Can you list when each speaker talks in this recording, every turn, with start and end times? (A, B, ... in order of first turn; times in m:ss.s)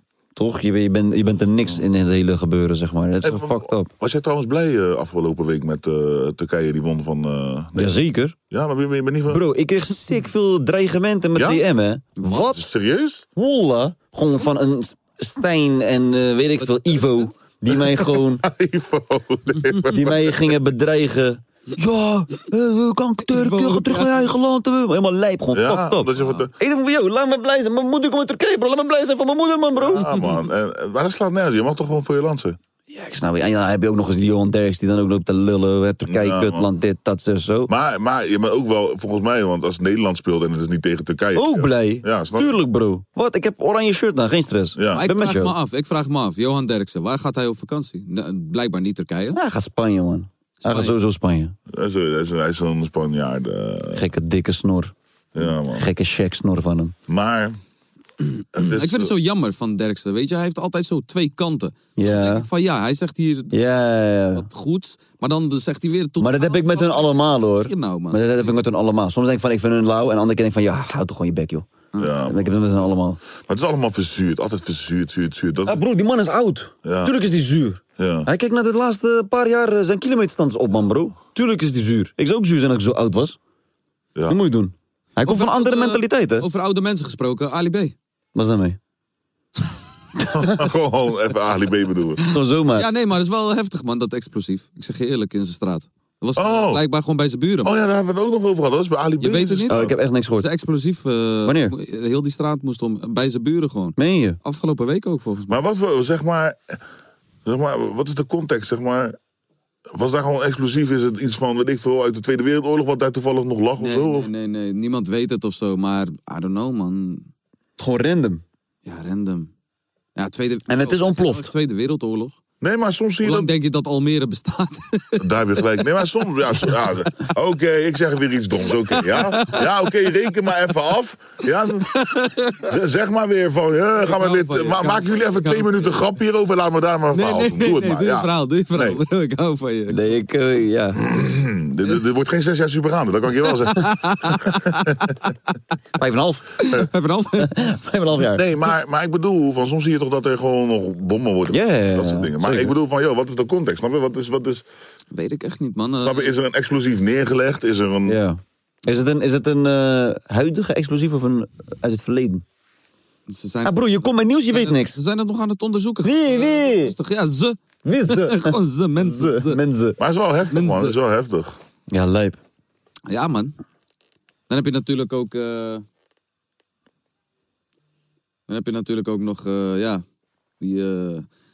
0:00.4-0:03.9 A
0:03.2-0:09.4 B
0:07.8-0:08.4 A
0:09.3-0:12.6 A
0:11.4-0:11.6 B
0:12.2-0:12.4 C
0:12.4-0:13.2 B
0:13.4-0:18.4 A
0:17.7-0:20.5 B
0:19.9-0:30.1 A
0:23.3-0:24.3 C
0:25.5-0:26.5 B
0:29.8-0:32.6 B
0:30.0-0:30.5 C
0:32.9-0:37.7 A
0:36.1-0:36.7 B
0:37.7-0:42.5 B
0:41.4-0:45.6 A
0:44.8-0:45.0 B
0:44.9-0:49.4 C
0:49.3-0:51.6 A
0:50.6-0:51.0 C
0:51.7-0:54.0 B
0:54.0-0:54.9 A
0:55.4-0:55.9 B
0:55.7-0:57.0 A
0:57.1-0:57.6 B
0:58.6-0:59.1 B
0:58.6-1:03.5 C
1:02.0-1:02.5 A
1:03.5-1:04.4 A
1:04.3-1:08.6 C
1:06.2-1:11.7 A
1:12.0-1:12.9 B
1:12.2-1:13.2 A
1:13.4-1:15.8 B
1:15.7-1:23.4 A
1:16.8-1:17.2 B
1:18.0-1:18.3 B
1:24.3-1:26.5 A
1:25.3-1:28.0 C
1:28.4-1:28.8 A
1:30.3-1:32.2 B
1:32.3-1:32.9 A
1:32.8-1:37.7 C
1:36.4-1:36.8 B
1:37.6-1:40.0 B
1:39.2-1:39.8 C
1:39.7-1:40.5 A
1:40.4-1:45.6 C
1:41.5-1:41.7 A
1:44.0-1:44.4 A
1:45.5-1:46.8 B
1:47.4-1:49.2 B
1:49.9-1:54.3 B
1:53.8-1:57.3 C
1:57.8-1:58.4 A
1:58.9-1:59.5 C
2:00.2-2:02.4 C
2:00.7-2:01.5 A
2:02.6-2:03.5 B
2:03.2-2:05.3 C
2:05.2-2:11.9 B
2:08.9-2:09.9 C
2:11.9-2:12.6 C
2:12.6-2:19.0 B
2:14.0-2:16.0 C
2:17.1-2:20.1 C
2:19.9-2:21.0 A
2:21.0-2:25.1 B
2:23.4-2:25.1 C
2:26.0-2:26.6 A
2:26.6-2:27.5 C
2:27.4-2:28.4 A
2:28.2-2:34.6 B
2:31.5-2:32.7 A
2:35.1-2:36.4 C
2:36.0-2:38.2 B
2:38.1-2:42.4 A
2:43.3-2:47.6 C
2:43.6-2:44.9 A
2:46.0-2:46.9 A
2:47.8-2:50.0 A
2:48.1-2:49.6 C
2:50.0-2:51.6 B
2:50.5-2:51.0 C
2:51.9-2:52.4 A
2:53.1-2:53.5 C
2:54.5-2:55.8 C
2:58.5-3:00.0 C
3:00.6-3:01.3 C